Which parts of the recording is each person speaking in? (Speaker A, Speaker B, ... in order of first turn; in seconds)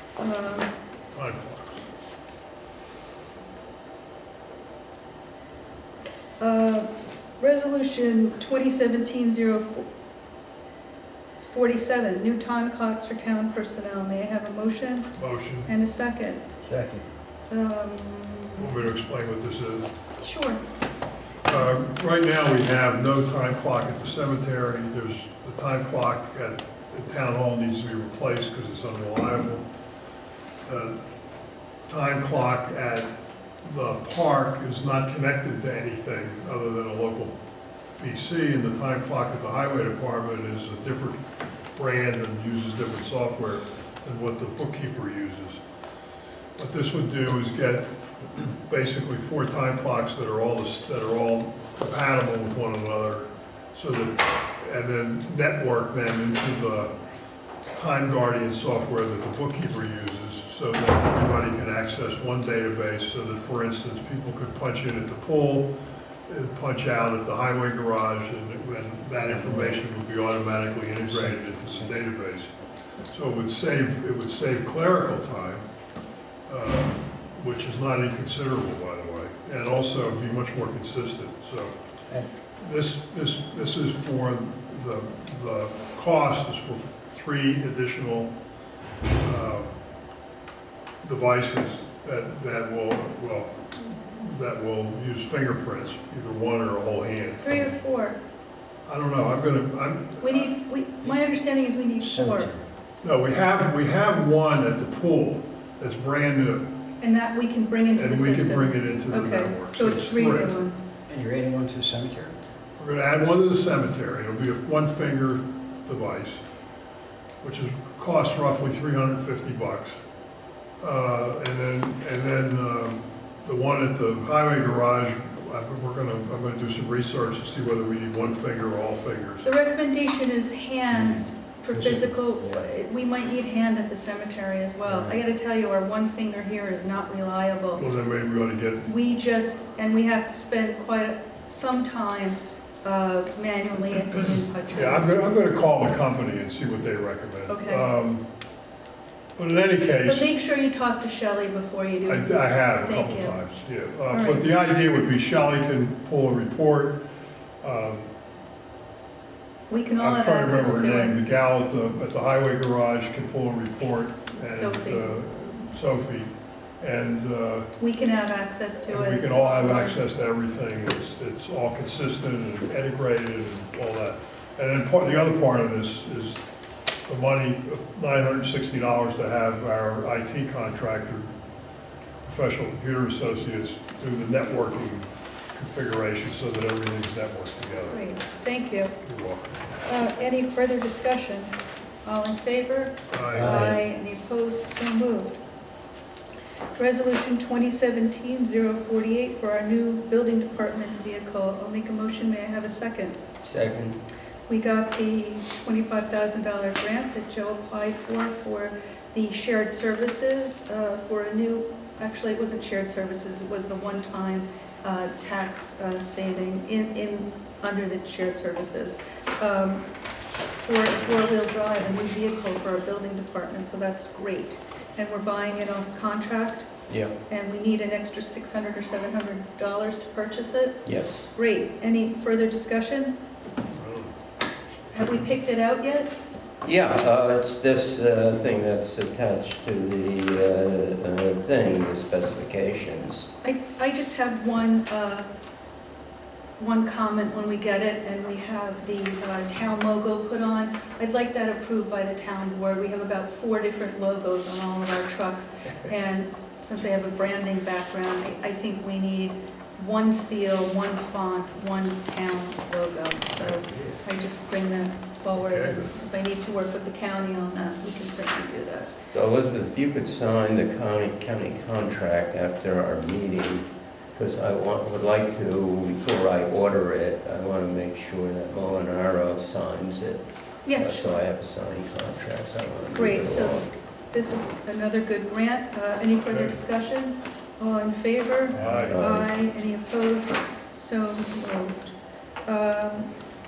Speaker A: 0.2-0.7, 6.4-6.9, 7.4-9.9, 11.4-15.1, 15.7-16.4, 17.5-18.7, 20.2-20.6, 97.4-98.2, 100.2-102.5, 107.0-110.9, 129.4-137.9, 138.8-145.2, 147.5-147.9, 150.1-153.5, 154.1-154.5, 159.7-161.2, 164.4-165.1, 167.8-170.0, 187.9-189.0, 189.8-195.4, 196.8-203.2, 204.5-219.8, 220.5-226.7, 227.3-233.2, 234.9-236.1, 243.4-245.3, 246.6-268.9, 280.6-281.2, 282.9-291.9, 292.5-293.1
Speaker B: 1.1-1.9, 15.2-15.7, 18.6-19.9, 21.5-29.6, 30.7-30.9, 31.9-33.1, 33.6-37.4, 38.0-41.2, 41.8-45.6, 46.6-56.9, 57.7-65.7, 66.3-72.5, 73.1-75.7, 76.5-81.7, 82.6-88.3, 89.2-89.7, 91.0-97.6, 98.9-100.5, 103.0-106.7, 108.0-110.6, 112.8-116.4, 117.4-120.0, 120.8-129.5, 137.8-138.9, 144.7-148.2, 149.4-150.3, 152.1-157.0, 157.6-158.1, 160.0-167.7, 168.9-176.4, 177.1-181.3, 182.2-188.0, 189.0-189.6, 193.1-193.8, 233.8-234.1, 263.6-263.9, 265.4-265.9, 288.5-289.0
Speaker C: 16.6-17.1, 69.3-69.8, 71.1-71.9, 102.0-102.7, 111.1-112.3, 131.9-132.7, 134.9-135.2, 193.4-193.7
Speaker D: 203.4-204.0, 226.9-227.1, 230.8-231.2, 236.6-243.3, 269.1-283.7, 288.7-289.3